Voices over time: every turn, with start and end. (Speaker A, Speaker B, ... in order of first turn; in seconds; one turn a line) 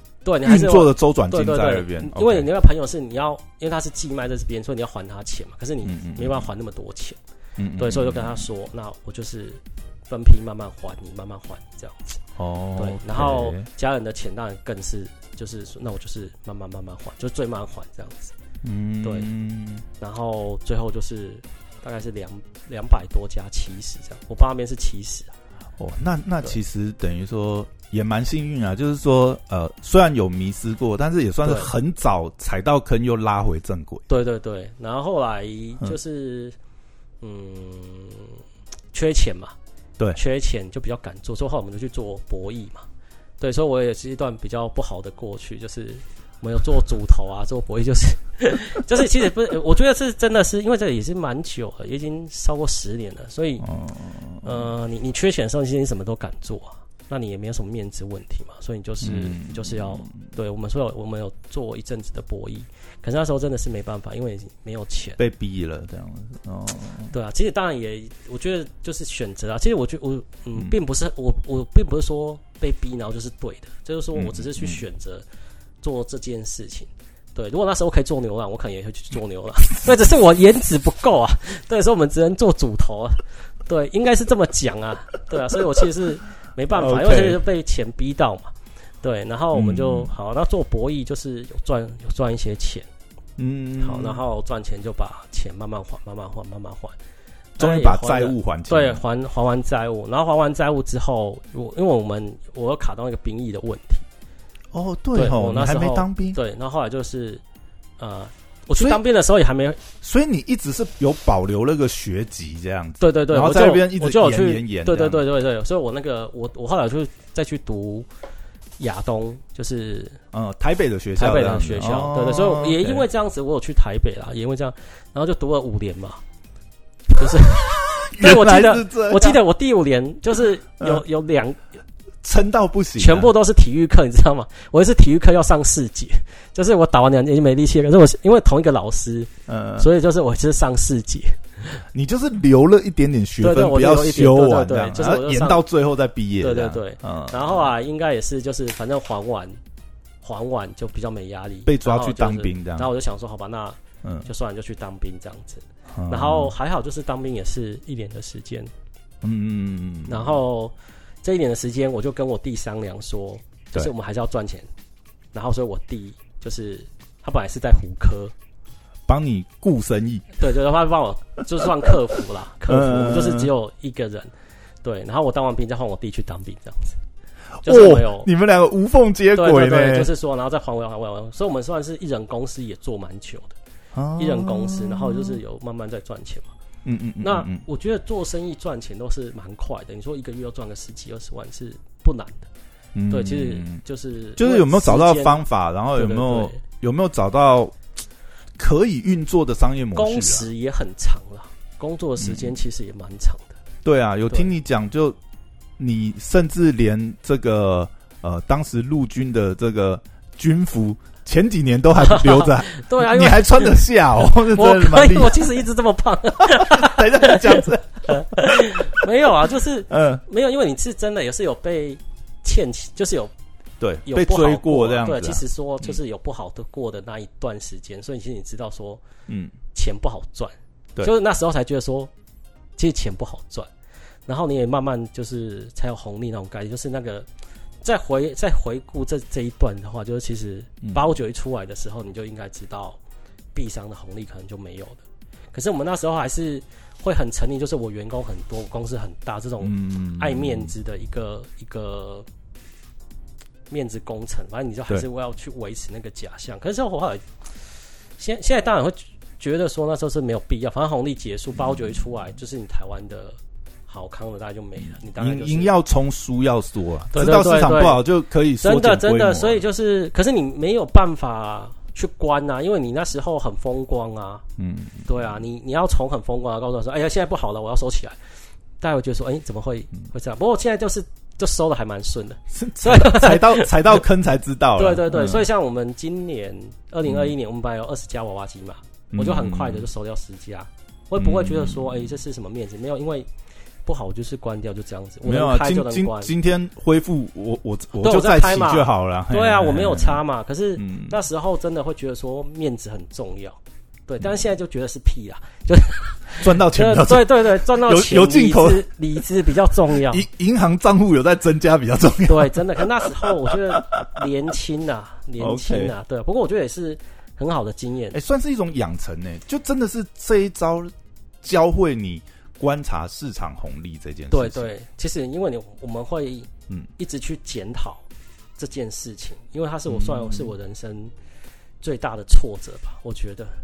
Speaker A: 0.2-7.2
Speaker B: 0.4-2.5
Speaker B: 5.8-6.5
Speaker B: 7.6-8.4
Speaker A: 7.8-12.2
Speaker B: 12.4-13.7
Speaker A: 12.8-18.3
Speaker B: 18.6-19.8
Speaker A: 19.0-19.3
Speaker A: 20.0-25.3
Speaker B: 25.8-34.0
Speaker A: 31.4-31.7
Speaker A: 34.1-36.5
Speaker A: 37.2-38.4
Speaker A: 38.9-39.5
Speaker A: 40.1-42.9
Speaker A: 43.4-53.7
Speaker B: 53.6-54.7
Speaker A: 54.4-65.2
Speaker B: 59.0-60.2
Speaker B: 65.2-67.1
Speaker A: 67.1-75.2
Speaker B: 74.1-74.8
Speaker A: 75.8-92.8
Speaker B: 86.7-87.4
Speaker B: 89.5-90.1
Speaker B: 93.4-94.2
Speaker A: 93.8-97.0
Speaker B: 97.6-99.0
Speaker A: 97.6-104.0
Speaker B: 104.7-106.4
Speaker A: 105.1-107.4
Speaker A: 108.0-109.8
Speaker B: 110.0-115.2
Speaker A: 113.0-118.1
Speaker A: 118.8-120.2
Speaker B: 120.3-123.0
Speaker A: 121.2-126.2
Speaker A: 127.1-131.6
Speaker B: 127.2-129.4
Speaker B: 132.2-133.3
Speaker A: 133.0-141.8
Speaker B: 139.5-139.9
Speaker B: 141.9-147.4
Speaker A: 143.4-145.6
Speaker A: 146.4-149.6
Speaker A: 150.2-158.7
Speaker B: 151.7-152.9
Speaker B: 155.9-156.5
Speaker B: 159.2-160.4
Speaker A: 160.1-164.7
Speaker A: 165.3-168.3
Speaker B: 169.1-170.3
Speaker A: 170.4-177.0
Speaker B: 172.7-173.5
Speaker A: 177.6-178.3
Speaker B: 177.6-180.1
Speaker A: 179.3-183.6
Speaker B: 183.9-185.4
Speaker A: 184.2-186.5
Speaker B: 186.8-187.6
Speaker A: 187.2-192.5
Speaker B: 192.9-193.8
Speaker A: 193.1-195.4
Speaker B: 194.4-197.7
Speaker A: 195.9-196.6
Speaker B: 198.6-200.5
Speaker A: 199.9-203.6
Speaker B: 202.2-202.6
Speaker B: 203.8-205.2
Speaker B: 205.8-215.5
Speaker A: 212.0-213.8
Speaker A: 214.5-223.3
Speaker B: 216.4-218.4
Speaker B: 219.9-220.2
Speaker B: 223.8-226.0
Speaker A: 224.0-229.0
Speaker B: 229.3-229.5
Speaker A: 229.7-232.1
Speaker A: 232.8-233.7
Speaker A: 234.3-237.3
Speaker A: 237.8-243.0
Speaker B: 240.8-241.1
Speaker A: 243.5-252.3
Speaker B: 249.6-250.7
Speaker A: 253.7-257.3
Speaker A: 258.2-265.7
Speaker B: 261.6-261.9
Speaker B: 264.9-269.6
Speaker A: 267.1-268.0
Speaker A: 268.6-274.4
Speaker B: 274.6-275.3
Speaker A: 275.1-278.2
Speaker A: 278.8-284.0
Speaker B: 282.5-285.5
Speaker A: 284.8-293.3
Speaker B: 287.1-287.3
Speaker B: 289.1-289.8
Speaker B: 291.2-292.2
Speaker A: 293.8-296.3
Speaker B: 295.2-300.2
Speaker A: 298.0-310.2
Speaker B: 300.8-301.1
Speaker B: 306.4-308.9
Speaker B: 309.9-314.2
Speaker A: 312.3-318.2
Speaker B: 315.4-315.9
Speaker B: 318.1-324.7
Speaker A: 324.3-328.0
Speaker A: 328.6-331.1
Speaker B: 329.9-330.5
Speaker A: 331.8-333.5